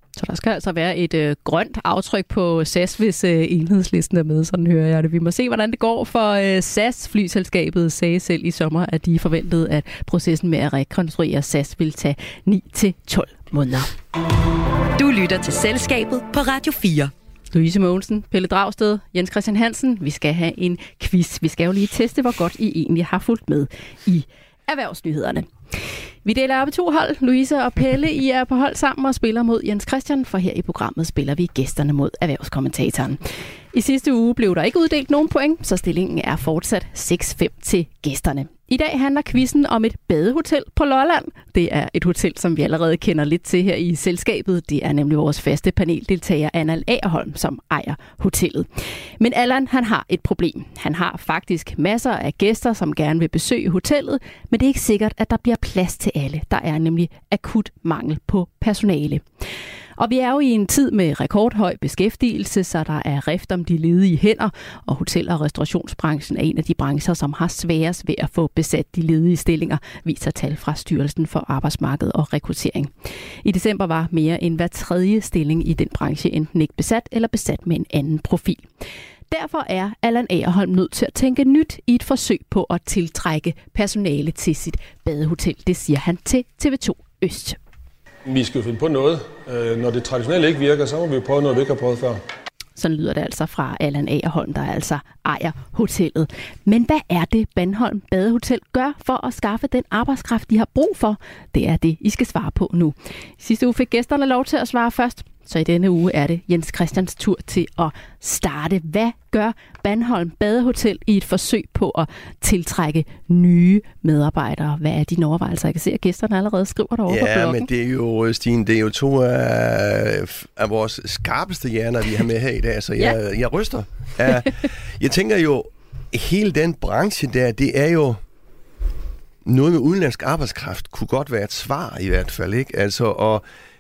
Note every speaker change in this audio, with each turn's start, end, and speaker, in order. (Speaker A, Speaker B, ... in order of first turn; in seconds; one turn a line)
Speaker A: 0.2-13.9
Speaker B: 14.9-17.1
Speaker A: 17.5-25.5
Speaker A: 26.2-48.7
Speaker A: 49.2-59.2
Speaker A: 60.0-72.9
Speaker A: 73.4-78.7
Speaker A: 79.3-87.6
Speaker C: 88.2-92.2
Speaker A: 92.8-117.7
Speaker D: 117.1-128.2
Speaker D: 129.4-133.4